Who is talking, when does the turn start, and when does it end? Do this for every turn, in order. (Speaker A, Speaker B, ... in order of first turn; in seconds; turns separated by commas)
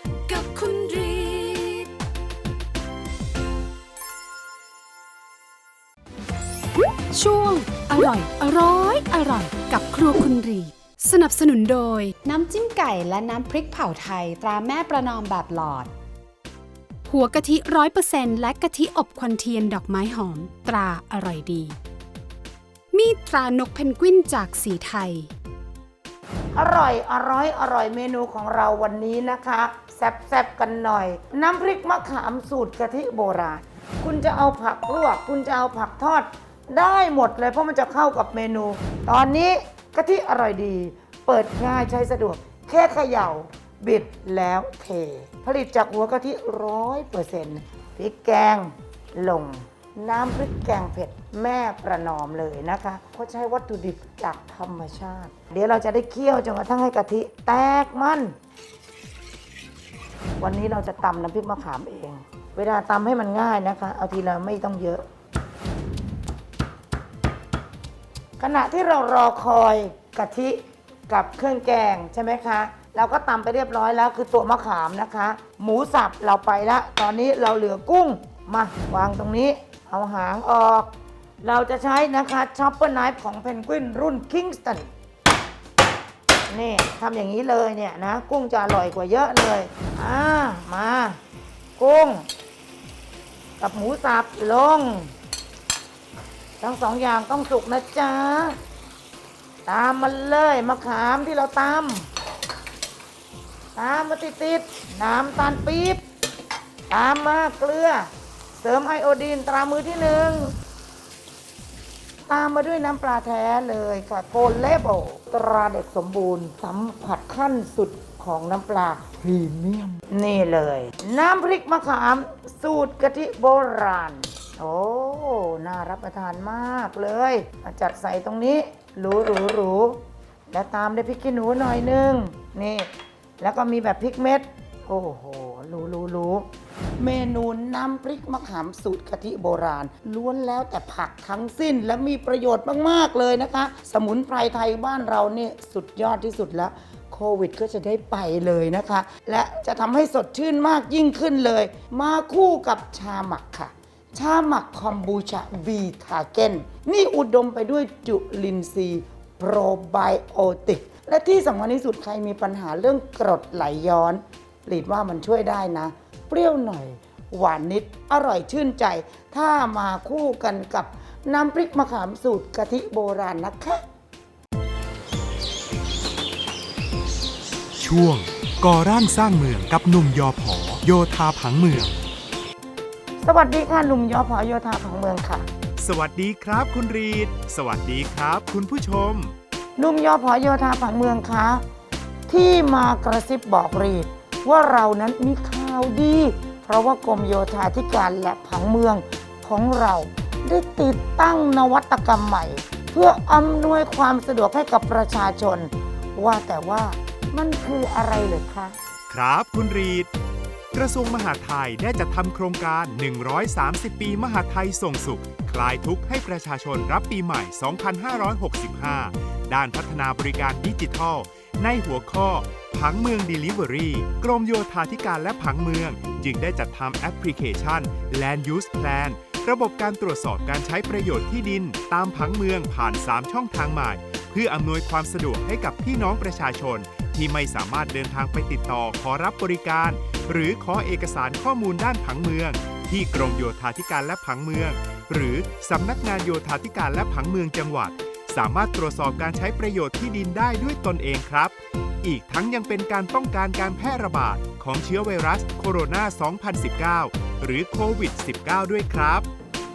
Speaker A: 0.3-1.9, Speaker A: 7.2-12.1, Speaker B: 7.3-7.9, Speaker B: 10.8-11.3, Speaker B: 12.1-15.9, Speaker A: 17.1-21.7, Speaker B: 20.4-21.4, Speaker A: 22.9-25.3, Speaker B: 23.5-23.8, Speaker B: 24.3-24.6, Speaker C: 26.5-58.4, Speaker C: 60.4-65.0, Speaker C: 68.4-84.9, Speaker C: 86.5-91.2, Speaker C: 91.8-92.3, Speaker C: 93.6-95.1, Speaker C: 96.6-98.6, Speaker C: 99.7-102.1, Speaker C: 103.8-106.0, Speaker C: 106.9-110.5, Speaker C: 112.3-173.8, Speaker D: 177.8-181.9, Speaker C: 183.2-185.4, Speaker D: 185.8-189.3, Speaker C: 189.8-191.6, Speaker C: 192.3-208.8, Speaker D: 209.1-210.1, Speaker D: 210.7-259.3